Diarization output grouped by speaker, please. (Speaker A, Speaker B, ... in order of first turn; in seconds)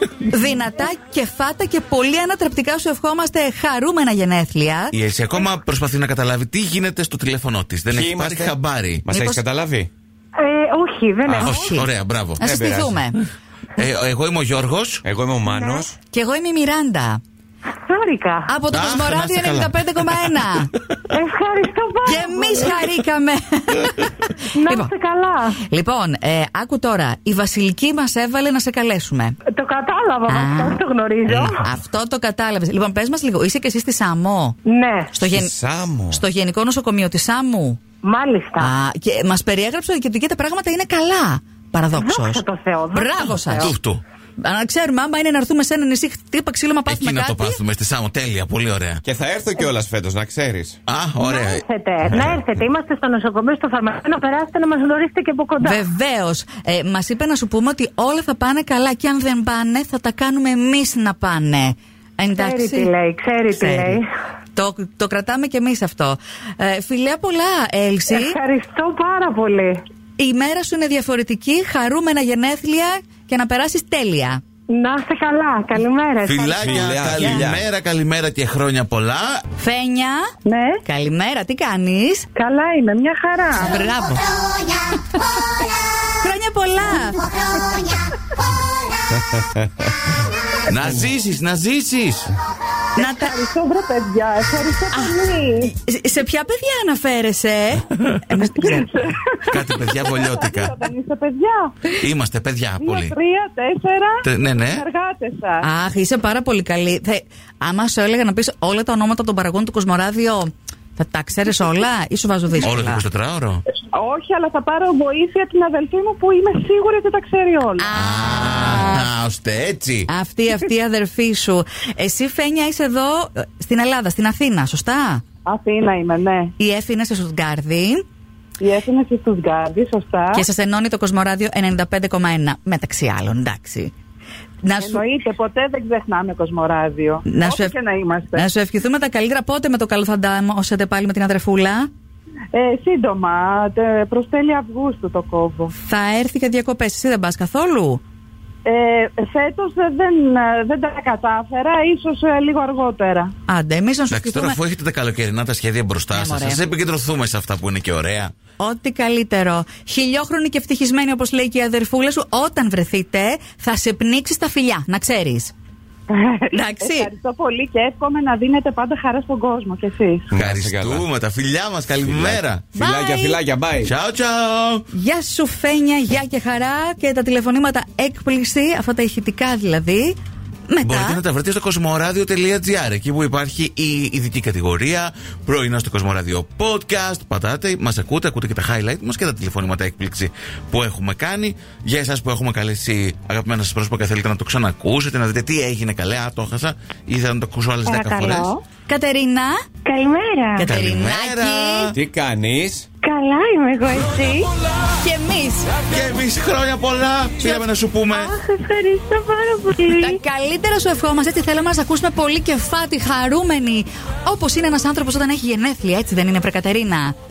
Speaker A: 0.2-4.9, 9.1-9.4, 11.4-11.9, 12.4-13.2, 16.1-17.2, 18.5-20.7, 22.0-24.9, 25.7-29.4, 30.3-30.8, 31.6-34.6, 35.1-35.5, 36.1-37.8, 38.6-43.7, 44.4-47.6, 55.6-62.9, 63.5-64.0, 64.5-68.3, 70.2-74.4, 79.6-80.3, 80.8-82.2, 83.5-84.2, 86.2-87.2, 93.0-93.3, 94.9-98.9, 105.6-113.0, 117.8-119.0, 120.1-125.2, 126.6-128.0, 130.3-133.9, 134.6-135.0, 137.2-137.7, 138.3-141.9, 145.7-148.0, 153.5-154.6, 156.1-156.6, 158.6-165.5, 166.5-167.1, 172.8-173.4, 174.9-180.2, 180.7-181.2, 198.9-199.6, 200.6-201.9, 205.0-205.7, 209.9-217.1
Speaker B: 4.9-9.1, 11.2-12.4, 13.8-15.0, 18.7-20.9, 43.6-44.0, 46.9-49.0, 50.9-51.6, 76.2-79.4, 90.7-92.3, 99.5-100.8, 101.9-103.2, 104.2-104.9, 112.6-113.6, 117.9-120.1, 154.1-158.3, 170.3-172.7, 173.8-174.9, 180.8-198.5, 200.6-201.9, 205.8-208.3
Speaker C: 7.9-9.9, 12.4-13.0, 15.0-15.9, 35.3-36.2, 49.0-50.8, 76.6-77.7, 89.2-89.9, 170.3-171.1, 172.0-173.9, 201.9-202.9
Speaker D: 10.4-11.5, 17.8-18.5, 21.1-22.8, 24.5-25.6, 29.4-31.5, 34.6-35.2, 38.0-38.7, 42.0-43.7, 51.2-55.8, 62.3-64.0, 68.1-69.8, 74.7-77.3
Speaker E: 80.5-80.8, 82.4-83.7, 93.3-95.7, 100.3-101.7, 102.8-104.1, 104.8-105.5, 114.0-117.7, 125.5-126.4, 128.6-130.3, 134.8-138.4, 142.5-145.7, 148.7-153.2, 166.8-170.2
Speaker F: 197.8-198.6, 199.8-200.7, 203.0-204.5, 208.1-210.2